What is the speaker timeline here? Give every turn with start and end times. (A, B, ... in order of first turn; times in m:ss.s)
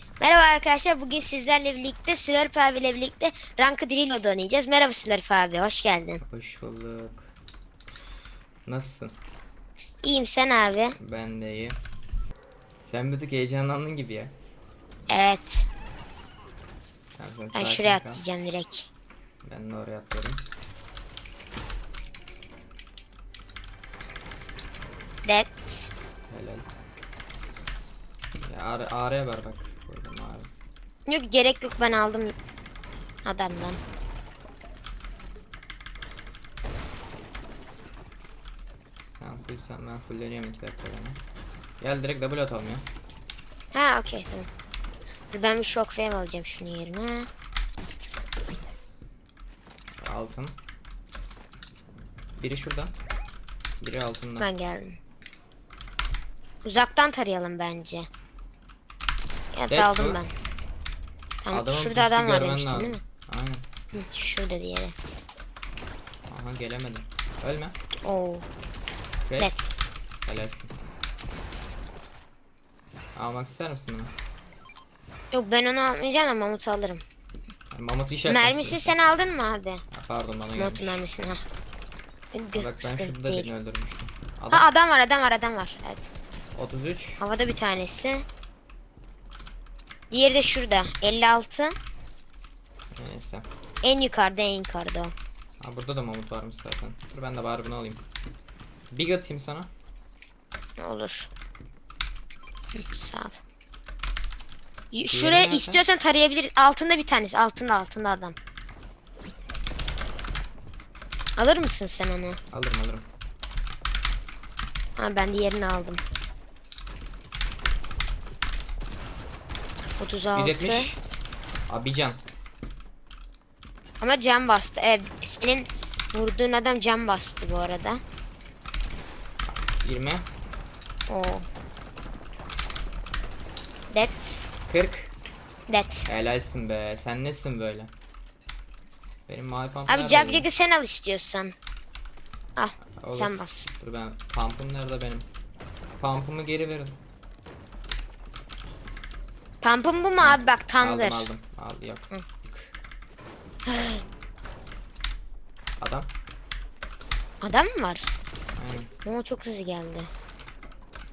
0:00.2-0:06.2 A
0:06.2-0:07.3 B
0:08.6-0:09.1 B
0:10.0-0:11.0 A
0:11.0-0:11.8 B
0:12.8-0:14.3 B
0:15.1-0:15.6 A
0:17.2-0:18.2 B
0:17.5-0:18.9 A
0:19.4-0:20.4 B
0:25.2-0:25.9 A
0:26.3-0:26.6 B
0:28.4-0:30.5 B
0:31.1-0:32.3 A
0:33.2-0:33.8 A
0:39.0-0:41.2 B
0:41.8-0:42.9 B
0:43.7-0:44.5 A
0:45.3-0:47.3 A
0:50.0-0:50.6 B
0:52.4-0:52.9 B
0:53.8-0:54.5 B
0:54.4-0:55.0 A
0:56.6-0:58.1 A
0:59.5-1:00.3 A
0:59.7-1:00.2 B
1:01.4-1:03.0 A
1:01.5-1:03.6 B
1:04.0-1:04.9 A
1:06.3-1:07.8 B
1:08.0-1:08.4 A
1:09.3-1:09.5 B
1:09.4-1:09.7 A
1:10.2-1:10.7 B
1:13.1-1:14.1 B
1:15.3-1:17.0 A
1:17.7-1:18.9 B
1:18.3-1:19.8 A
1:19.9-1:21.0 B
1:20.6-1:21.4 A
1:22.3-1:23.5 A
1:22.6-1:24.7 B
1:24.5-1:26.1 A
1:26.6-1:27.2 B
1:27.2-1:28.2 A
1:30.1-1:31.7 A
1:32.9-1:33.4 B
1:33.8-1:35.1 A
1:35.6-1:38.0 B
1:38.9-1:39.7 B
1:40.8-1:41.3 A
1:42.7-1:43.4 A
1:44.9-1:48.4 A
1:45.1-1:45.8 B
1:51.4-1:52.4 A
1:52.5-1:53.0 B
1:55.0-1:56.0 A
2:00.0-2:00.9 A
2:00.3-2:01.0 B
2:01.7-2:02.2 B
2:04.0-2:08.0 A
2:09.5-2:10.2 B
2:11.1-2:11.4 A
2:13.9-2:14.5 A
2:14.7-2:15.1 B
2:15.7-2:16.1 A
2:16.1-2:17.9 B
2:19.3-2:20.5 B
2:19.9-2:21.5 A
2:22.6-2:23.7 A
2:23.0-2:25.3 B
2:26.0-2:27.0 B
2:29.6-2:31.3 A
2:30.2-2:32.7 B
2:33.6-2:34.0 A
2:35.8-2:36.1 B
2:37.4-2:38.1 A
2:38.6-2:38.9 B
2:39.0-2:40.1 A